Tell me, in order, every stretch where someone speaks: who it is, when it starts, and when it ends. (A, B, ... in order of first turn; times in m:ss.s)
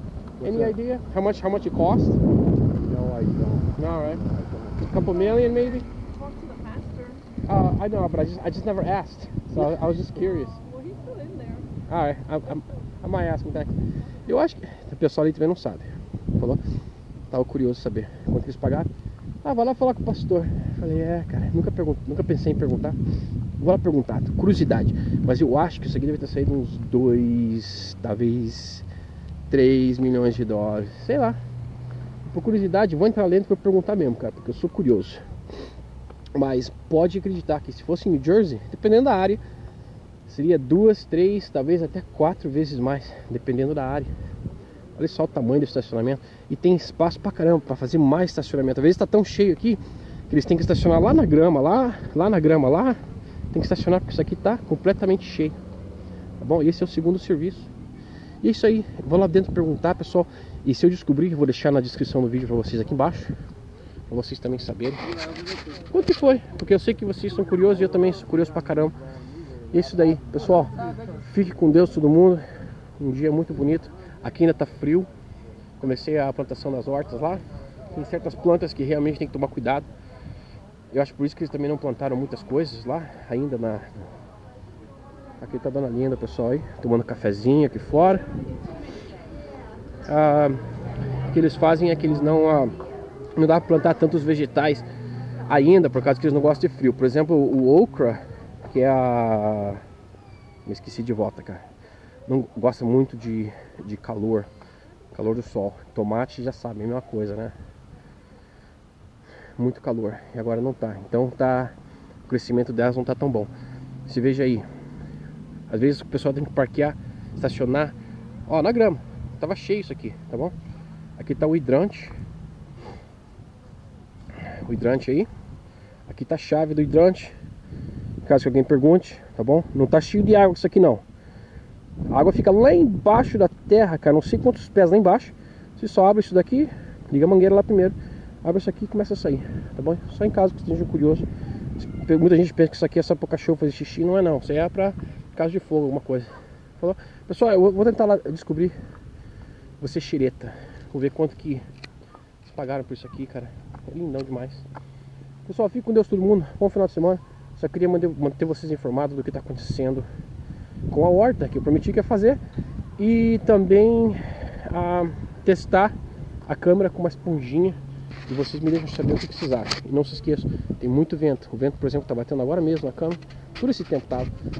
0:00.4-0:02.2 A
0:02.9-0:04.9 B
0:03.7-0:04.2 A
0:04.9-0:05.9 A
0:06.1-0:07.2 C
0:07.4-0:10.6 A
0:10.6-0:11.7 C
0:11.8-0:13.7 A
0:14.2-0:16.6 A
0:17.3-0:18.9 A
0:19.4-0:23.0 A
0:23.6-0:28.9 A
0:29.5-0:31.4 A
0:32.2-0:35.2 A
0:36.3-0:39.4 A
0:40.2-0:44.1 A
0:45.0-0:53.0 A
0:53.5-0:55.6 A
0:56.4-0:57.7 A
0:58.4-1:03.3 A
1:04.1-1:05.0 A
1:05.9-1:09.0 A
1:09.7-1:12.4 A
1:13.0-1:15.1 A
1:15.8-1:19.8 A
1:20.9-1:24.0 A
1:25.4-1:28.3 A
1:30.0-1:30.6 A
1:31.3-1:32.8 A
1:33.4-1:34.8 A
1:35.5-1:39.8 A
1:40.6-1:41.6 A
1:42.2-1:44.5 A
1:45.1-1:47.5 A
1:49.6-1:51.7 A
1:52.3-1:53.5 A
1:54.0-1:54.6 A
1:55.7-1:58.0 A
1:58.5-2:00.5 A
2:01.2-2:02.1 A
2:04.6-2:05.3 A
2:06.0-2:07.3 A
2:08.2-2:11.0 A
2:12.1-2:21.2 A
2:21.8-2:28.7 A
2:29.8-2:31.6 A
2:32.4-2:34.6 A
2:35.4-2:40.0 A
2:40.9-2:42.4 A
2:43.0-2:45.9 A
2:46.4-2:54.3 A